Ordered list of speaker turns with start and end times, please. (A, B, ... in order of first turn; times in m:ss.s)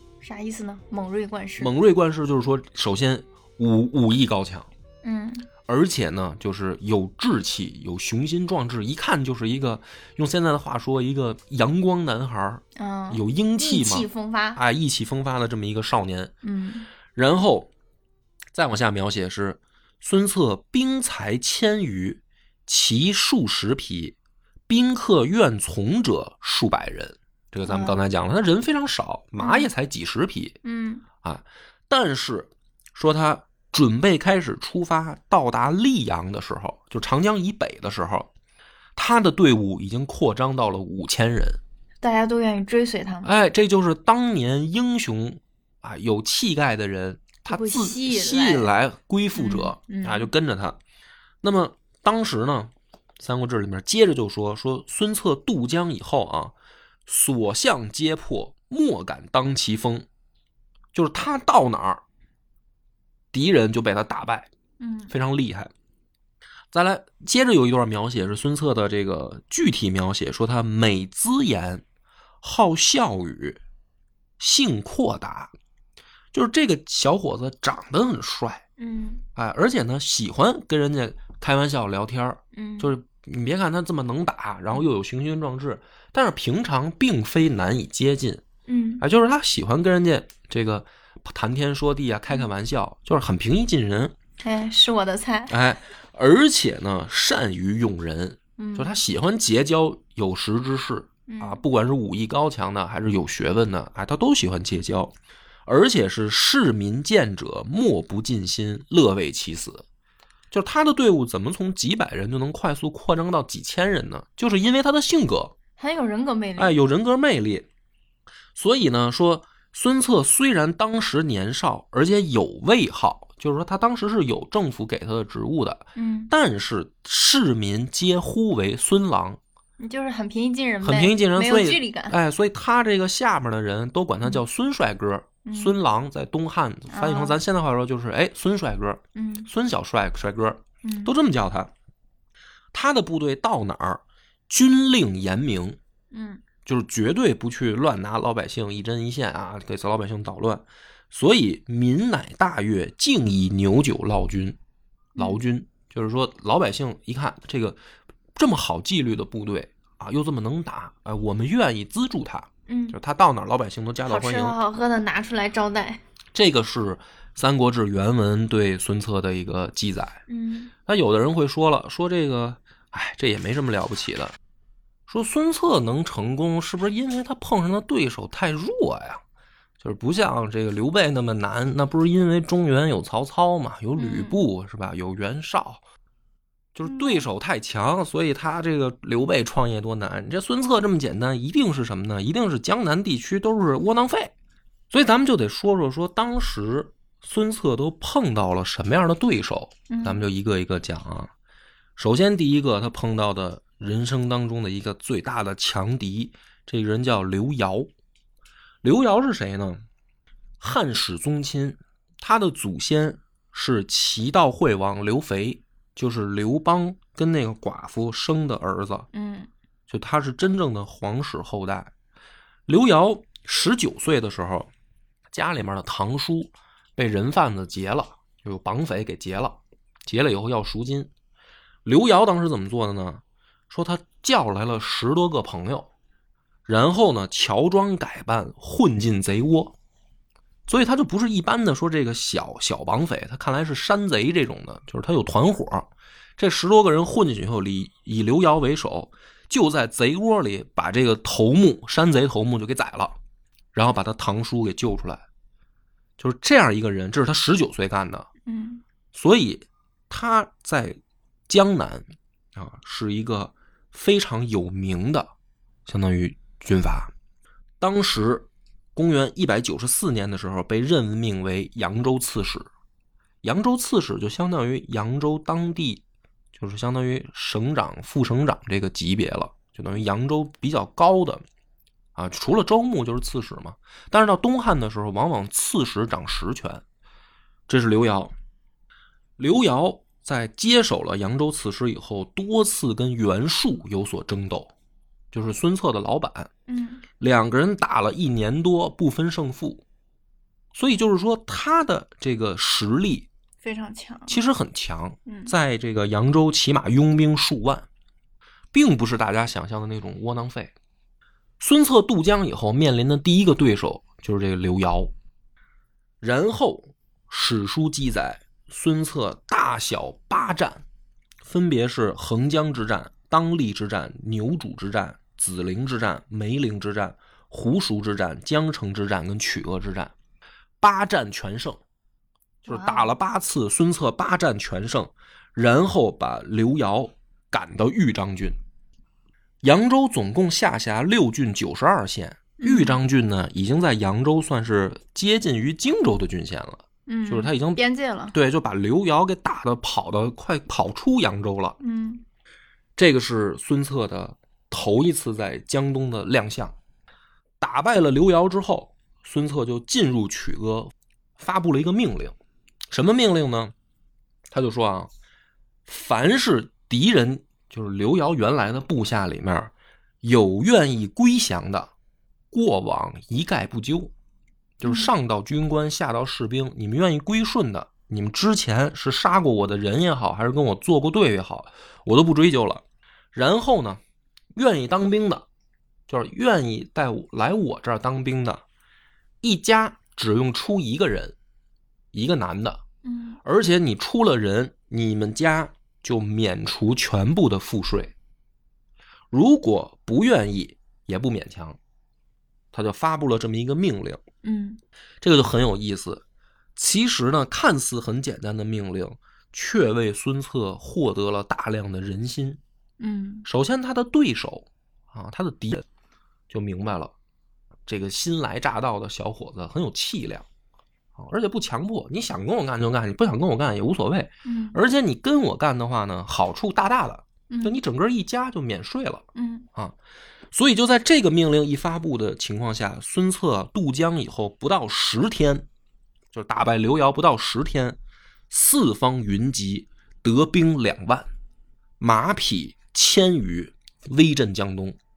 0:00.2-0:01.7 A
0:01.6-0:04.7 B
0:05.0-0:05.5 A
0:05.7-0:16.3 B
0:12.8-0:14.6 A
0:16.4-0:16.9 A
0:17.2-0:17.7 B
0:18.5-0:24.2 B
0:24.7-0:30.6 B
0:27.6-0:28.0 A
0:29.4-0:29.7 A
0:30.6-0:31.0 A
0:31.2-0:38.3 B
0:39.0-0:41.6 B
0:42.0-0:43.3 A
0:43.2-0:50.8 B
0:47.5-0:48.7 A
0:49.4-0:50.3 A
0:51.4-0:56.5 B
0:57.1-1:00.1 B
1:00.9-1:02.0 B
1:03.3-1:04.5 B
1:04.8-1:05.1 A
1:05.1-1:05.7 B
1:06.7-1:11.8 B
1:12.4-1:13.6 B
1:14.4-1:15.5 B
1:16.3-1:18.6 B
1:18.8-1:19.2 A
1:19.4-1:28.4 B
1:22.5-1:22.9 A
1:28.7-1:29.0 A
1:29.0-1:34.1 B
1:34.4-1:35.6 A
1:35.5-1:45.1 B
1:38.6-1:39.0 A
1:41.3-1:41.6 A
1:45.7-1:49.8 B
1:50.5-1:55.6 B
1:55.8-1:56.8 A
1:56.6-1:57.7 B
1:58.6-2:09.4 B
2:06.0-2:06.3 A
2:09.8-2:12.2 A
2:10.8-2:21.7 B
2:15.4-2:15.8 A
2:16.9-2:17.4 A
2:19.2-2:19.5 A
2:20.8-2:21.1 A
2:22.7-2:25.8 B
2:26.1-2:26.4 A
2:26.6-2:34.6 B
2:35.2-2:37.8 B
2:38.4-2:44.6 B
2:42.7-2:43.0 A
2:44.0-2:46.0 A
2:46.4-2:50.2 B
2:50.3-2:50.7 A
2:50.9-2:54.4 B
2:55.1-2:59.2 B
2:59.8-3:05.8 B
3:04.0-3:04.4 A
3:06.8-3:14.3 B
3:06.8-3:07.3 A
3:14.9-3:21.3 B
3:19.9-3:20.2 A
3:22.0-3:27.9 B
3:28.8-3:29.8 B
3:30.6-3:39.1 B
3:39.1-3:39.5 A
3:39.9-3:41.9 B
3:42.7-3:44.7 B
3:45.3-3:51.1 B
3:51.8-3:55.9 B
3:56.7-3:59.8 B
4:00.7-4:13.2 B
4:13.7-4:15.3 B
4:16.2-4:18.3 B
4:18.4-4:18.8 A
4:19.1-4:21.0 B
4:21.5-4:25.3 B
4:25.9-4:27.1 B
4:27.8-4:32.7 B
4:33.4-4:36.0 B
4:36.5-4:41.4 B
4:42.2-4:46.8 B
4:47.7-4:48.3 B
4:49.4-4:54.7 B
4:55.3-4:56.5 B
4:56.7-4:57.0 A
4:57.2-4:59.8 B
5:00.8-5:03.3 B
5:03.6-5:04.4 A
5:04.3-5:07.9 B
5:05.3-5:05.5 A
5:08.7-5:10.7 B
5:11.6-5:15.1 B
5:16.2-5:20.8 B
5:21.4-5:30.1 B
5:30.8-5:31.8 B
5:32.6-5:38.6 B
5:32.7-5:33.1 A
5:39.6-5:47.8 B
5:42.6-5:43.0 A
5:47.1-5:48.4 A
5:48.3-5:51.8 B
5:51.8-5:52.2 A
5:53.0-5:56.7 B
5:57.6-6:02.4 B
6:02.9-6:03.7 B
6:04.5-6:05.1 B
6:05.9-6:09.7 B
6:10.2-6:11.9 B
6:12.5-6:14.1 B
6:14.8-6:24.0 B
6:14.8-6:15.1 A
6:24.6-6:25.4 B
6:26.1-6:28.6 B
6:29.4-6:31.4 B
6:32.1-6:32.8 B
6:33.0-6:33.4 A
6:33.4-6:38.1 B
6:39.3-6:41.8 B
6:42.7-6:44.2 B
6:44.4-6:44.8 A
6:45.2-6:46.2 B
6:46.8-6:52.6 B
6:53.0-6:53.5 A
6:53.4-6:55.8 B
6:56.5-6:57.1 B
6:57.9-7:00.4 B
7:01.2-7:09.2 B
7:04.4-7:04.8 A
7:07.5-7:07.8 A
7:09.4-7:09.7 A
7:10.5-7:15.7 B
7:16.3-7:18.0 B
7:18.5-7:21.3 B
7:22.0-7:25.0 B